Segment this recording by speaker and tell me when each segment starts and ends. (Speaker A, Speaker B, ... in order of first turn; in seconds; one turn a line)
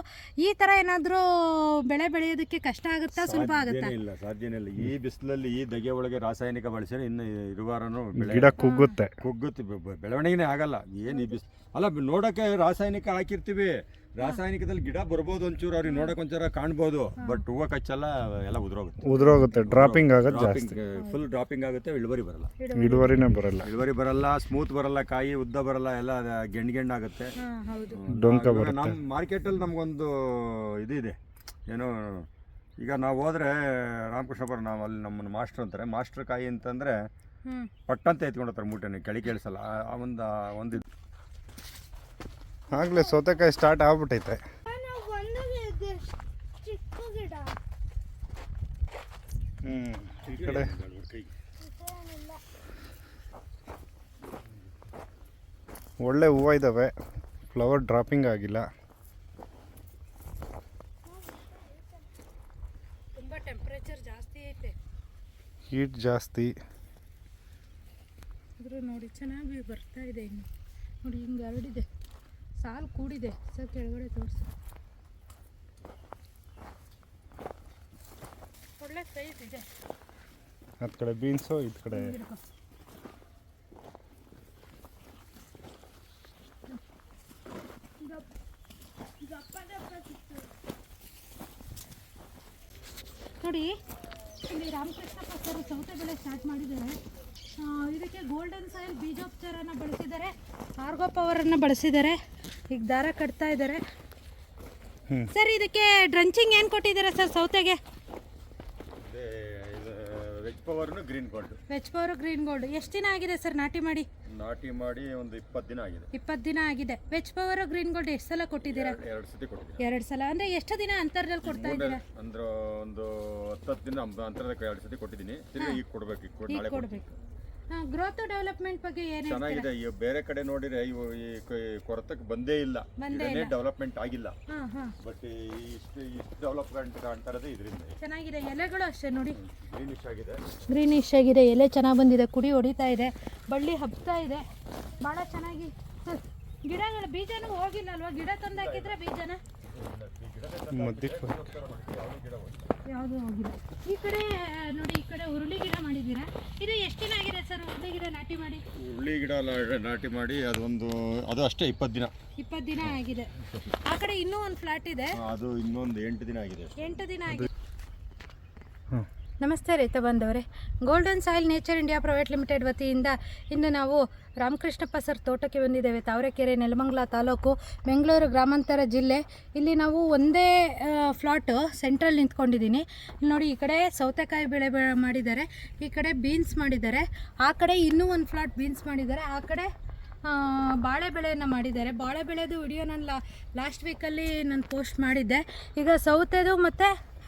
Speaker A: 0.4-4.0
Speaker B: 3.1-8.6
Speaker C: 8.2-9.2
Speaker A: 8.6-9.0
Speaker B: 9.2-22.5
Speaker A: 11.1-11.4
Speaker A: 15.8-16.1
Speaker C: 19.0-20.8
Speaker A: 22.6-23.2
Speaker C: 22.8-23.7
Speaker B: 23.6-27.3
Speaker A: 27.4-28.0
Speaker B: 27.9-31.2
Speaker C: 28.1-29.0
Speaker B: 31.7-32.3
Speaker B: 32.8-37.0
Speaker A: 37.5-37.7
Speaker B: 37.9-40.9
Speaker A: 42.7-43.4
Speaker C: 42.7-44.4
Speaker A: 44.7-47.6
Speaker C: 49.6-50.7
Speaker B: 50.2-51.3
Speaker A: 51.6-52.4
Speaker C: 56.0-57.0
Speaker C: 57.5-58.7
Speaker A: 61.2-61.8
Speaker A: 63.1-64.8
Speaker C: 65.7-66.5
Speaker A: 68.6-70.5
Speaker A: 71.0-71.9
Speaker A: 72.6-74.5
Speaker A: 78.8-79.7
Speaker C: 80.8-82.2
Speaker A: 81.9-82.4
Speaker A: 88.0-88.3
Speaker A: 89.2-90.5
Speaker A: 93.4-93.8
Speaker A: 94.4-97.0
Speaker A: 97.6-102.2
Speaker A: 102.7-103.8
Speaker A: 105.3-107.8
Speaker B: 109.0-111.6
Speaker A: 111.7-114.1
Speaker B: 114.3-116.1
Speaker A: 116.1-119.0
Speaker B: 118.6-119.8
Speaker A: 119.8-122.0
Speaker B: 121.4-127.1
Speaker A: 126.5-127.1
Speaker A: 127.7-129.7
Speaker B: 129.2-134.4
Speaker A: 133.0-133.6
Speaker A: 134.5-134.9
Speaker B: 135.0-138.0
Speaker A: 138.0-139.4
Speaker B: 139.3-140.4
Speaker A: 140.7-144.4
Speaker A: 145.0-149.4
Speaker B: 148.5-149.0
Speaker B: 149.6-152.8
Speaker C: 150.7-151.4
Speaker A: 152.9-158.6
Speaker B: 158.8-162.1
Speaker A: 162.4-163.3
Speaker B: 162.8-163.8
Speaker A: 163.8-165.2
Speaker B: 165.2-167.1
Speaker A: 166.8-167.5
Speaker A: 169.4-189.7
Speaker A: 190.2-196.9